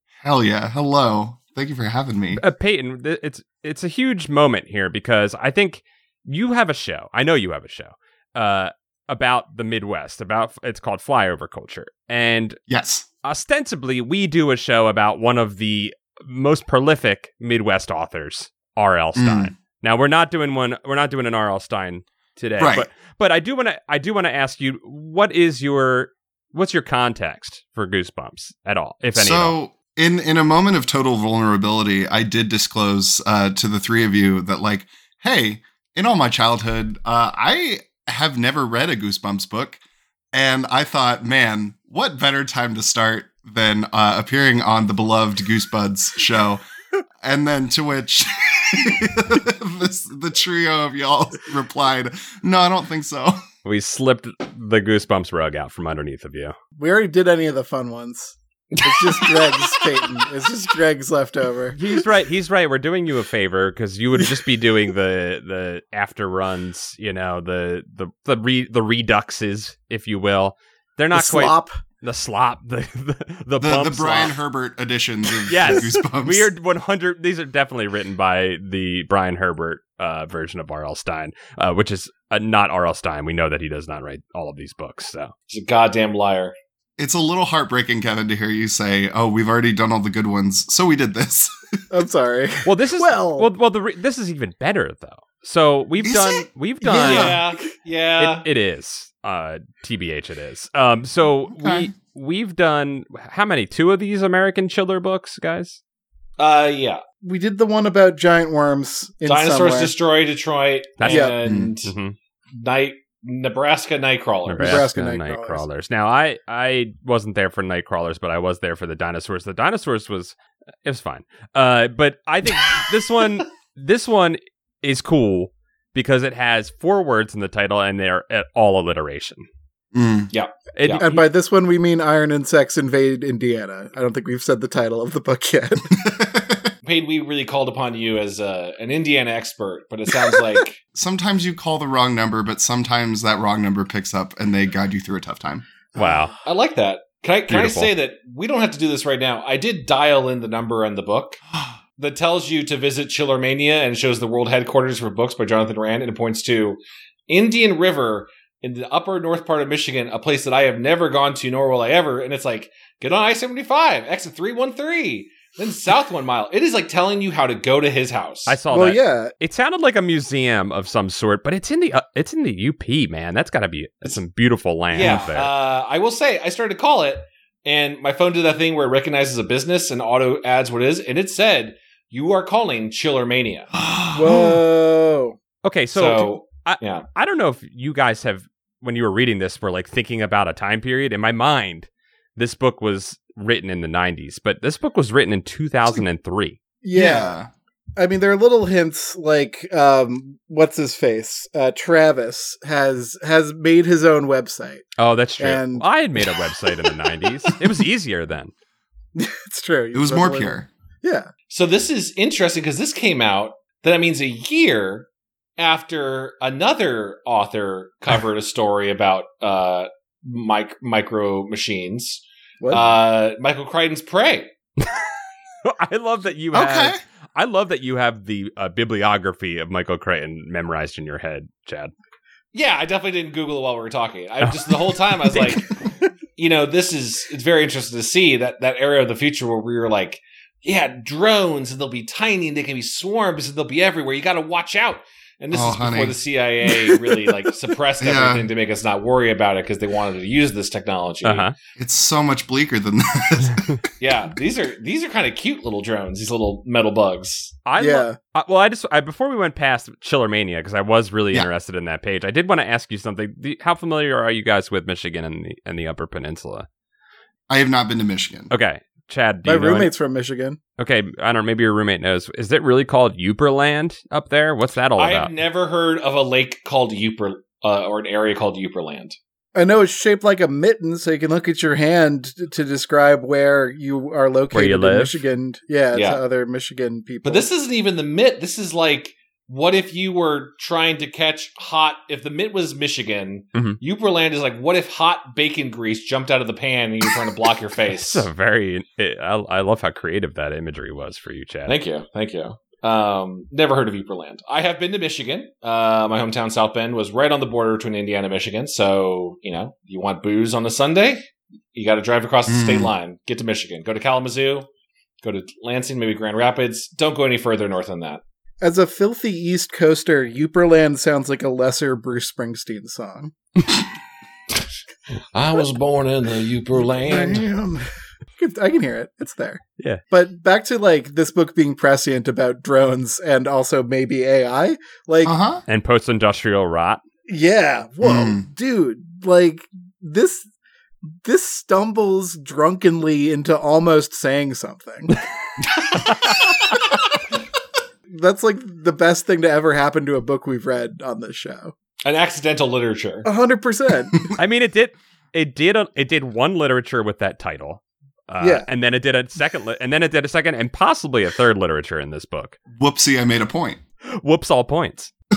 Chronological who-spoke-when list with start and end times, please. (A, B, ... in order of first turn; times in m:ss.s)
0:00.2-0:02.4 A
0:02.4-0:12.6 B
0:12.7-0:13.0 A
0:13.2-0:29.5 B
0:19.1-0:19.5 A
0:22.6-0:22.9 A
0:29.2-0:39.8 A
0:40.3-0:46.6 A
0:47.2-0:53.4 A
0:53.6-0:56.5 B
0:56.8-1:01.8 C
0:58.7-0:59.8 D
1:01.7-1:14.4 B
1:11.1-1:11.8 C
1:13.6-1:16.5 A
1:15.5-1:25.3 B
1:25.5-1:26.5 D
1:27.0-1:31.8 A
1:31.9-1:33.5 C
1:32.6-1:37.3 B
1:36.0-1:36.5 A
1:36.8-1:37.6 C
1:37.0-1:38.5 D
1:37.0-1:37.3 A
1:38.2-1:45.8 B
1:41.6-1:41.9 A
1:46.4-1:47.0 D
1:47.2-1:49.9 C
1:49.2-1:51.9 D
1:51.0-1:52.2 B
1:51.1-1:51.4 C
1:51.4-1:51.7 A
1:52.5-1:54.9 D
1:54.4-2:00.3 B
1:54.6-1:55.6 C
2:00.8-2:09.4 B
2:09.9-2:10.3 A
2:10.3-2:11.0 D
2:10.7-2:11.2 B
2:10.9-2:15.9 C
2:15.9-2:16.7 A
2:16.8-2:20.8 D
2:20.9-2:25.6 A
2:25.9-2:26.3 B
2:26.4-2:31.4 D
2:27.5-2:27.9 B
2:32.0-2:48.6 D
2:48.5-2:55.5 B
2:48.7-2:49.3 C
2:54.9-3:03.7 D
2:55.0-2:55.3 A
3:03.8-3:04.6 A
3:04.1-3:05.4 C
3:05.6-3:16.6 B
3:05.9-3:07.1 D
3:16.8-3:17.4 C
3:16.9-3:17.5 A
3:18.0-3:24.9 C
3:25.0-3:28.5 B
3:25.4-3:26.4 C
3:29.2-3:31.3 C
3:29.9-3:30.7 A
3:31.5-3:44.5 D
3:42.6-3:42.8 C
3:45.6-3:51.9 B
3:46.5-3:47.0 A
3:52.5-3:55.7 D
3:54.4-3:55.7 B
3:56.4-4:11.5 D
4:05.5-4:06.2 A
4:08.0-4:08.5 A
4:11.2-4:11.5 B
4:11.8-4:13.8 A
4:14.0-4:17.6 D
4:17.6-4:26.7 B
4:17.8-4:18.2 C
4:27.5-4:28.5 A
4:28.5-4:29.9 B
4:29.4-4:30.6 C
4:30.8-4:35.3 B
4:35.0-4:39.2 D
4:39.5-4:47.5 C
4:44.5-4:45.2 B
4:45.9-4:46.2 D
4:47.2-4:58.2 D
4:58.0-5:01.8 B
5:01.7-5:14.7 D
5:12.5-5:12.9 A
5:15.2-5:18.2 D
5:18.6-5:23.3 C
5:25.3-5:27.5 D
5:27.0-5:35.3 C
5:35.2-5:35.6 A
5:35.7-5:37.0 B
5:37.3-5:40.4 C
5:38.0-5:38.4 A
5:41.2-5:45.2 C
5:48.1-5:51.7 C
5:52.0-5:53.3 D
5:53.2-5:54.2 C
5:54.4-6:02.6 B
5:58.4-5:58.7 C
6:02.7-6:03.8 A
6:04.0-6:05.1 B